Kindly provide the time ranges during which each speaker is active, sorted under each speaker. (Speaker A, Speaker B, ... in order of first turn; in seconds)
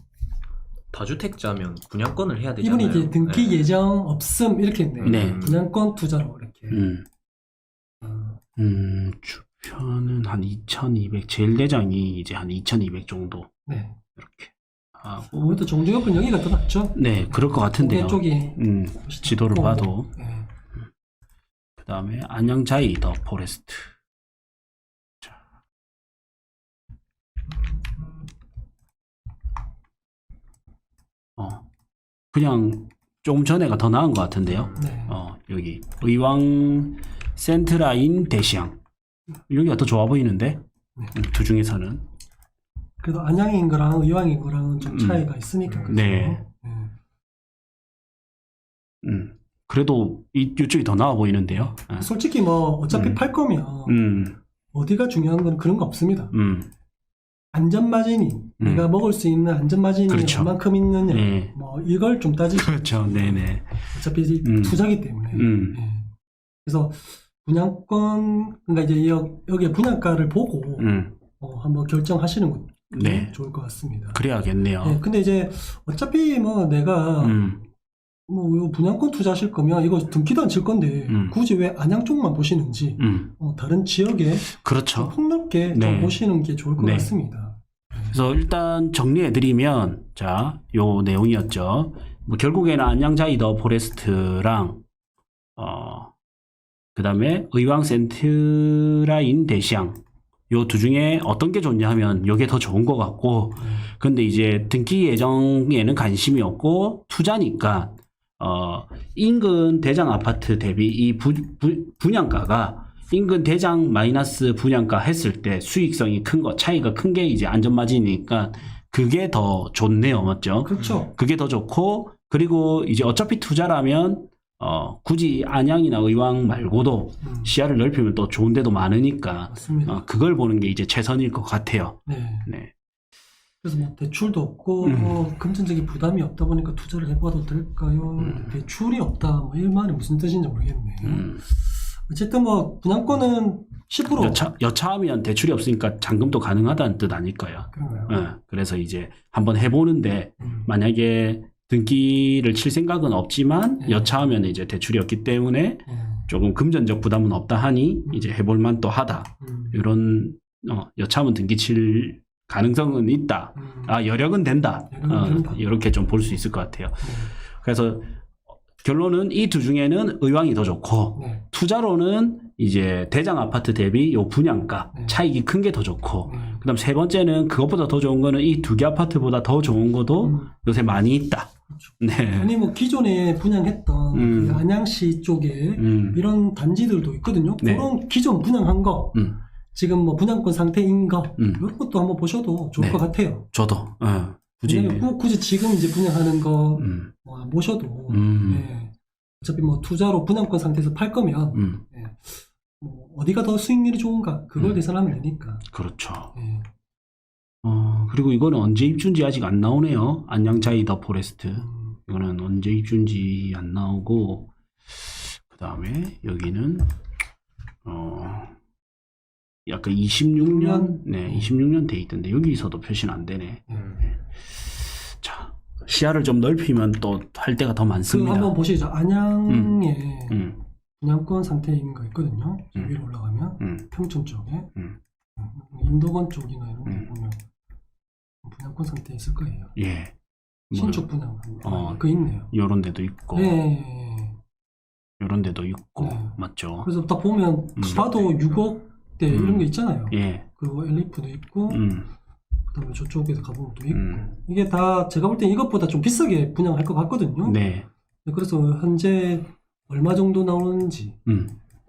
Speaker A: 0.9-3.7, 5.0-5.7, 34.5-34.9, 120.8-121.1, 247.9-248.6
Speaker B: 2.6-6.8, 8.0-8.4, 13.7-14.0, 15.3-20.5, 34.7-35.2, 43.0-46.9, 51.5-54.0, 54.7-56.3, 57.5-66.1, 66.7-74.2, 74.8-77.5, 78.3-88.2, 103.6-103.9, 120.6-121.1, 127.2-127.5, 129.5-130.0, 132.1-132.5, 133.6-144.4, 147.7-148.2, 150.4-150.7, 153.8-154.3, 155.9-156.3, 158.1-158.3, 159.4-159.8, 163.6-164.0, 164.9-165.6, 167.0-167.3, 171.2-171.5, 174.9-175.2, 176.2-176.6, 180.2-180.6, 181.7-193.5, 194.6-205.7, 206.3-206.7, 211.6-212.0, 220.4-221.5, 223.7-224.0, 228.1-234.7, 235.4-237.4, 238.4-239.8, 240.7-242.5, 243.3-244.4, 246.0-252.0, 252.7-257.6, 258.2-261.2
Speaker C: 5.0-5.4, 6.7-7.0, 8.6-13.5, 14.2-15.6, 16.9-20.1, 21.8-23.9, 31.4-31.7, 32.3-38.8, 39.5-40.6, 41.1-42.0, 44.8-45.2, 45.9-46.4, 49.0-52.1, 52.9-53.2, 53.9-54.4, 56.3-56.7, 58.6-58.9, 60.1-60.5, 61.1-61.5, 62.5-63.9, 64.4-65.8, 70.8-71.2, 72.9-73.3, 74.1-75.0, 77.2-77.6, 81.1-81.4, 83.0-83.3, 84.5-85.2, 85.7-86.2, 86.8-87.1, 88.1-94.8, 95.6-96.1, 97.0-100.0, 100.5-132.7, 134.8-135.2, 138.2-138.6, 141.0-141.4, 144.1-168.1, 168.8-182.5, 184.1-184.6, 185.8-186.2, 187.6-187.9, 191.4-191.6, 192.8-195.1, 196.8-197.1, 198.1-198.7, 201.5-201.8, 204.6-204.8, 205.7-206.3, 207.6-216.9, 217.8-218.6, 219.7-228.6, 229.5-230.6, 233.6-233.9, 239.8-240.2, 240.7-241.1, 241.6-243.6, 245.2-246.9, 247.8-248.1, 249.3-250.5, 251.7-252.1, 253.9-254.3, 257.4-257.9, 261.3-261.6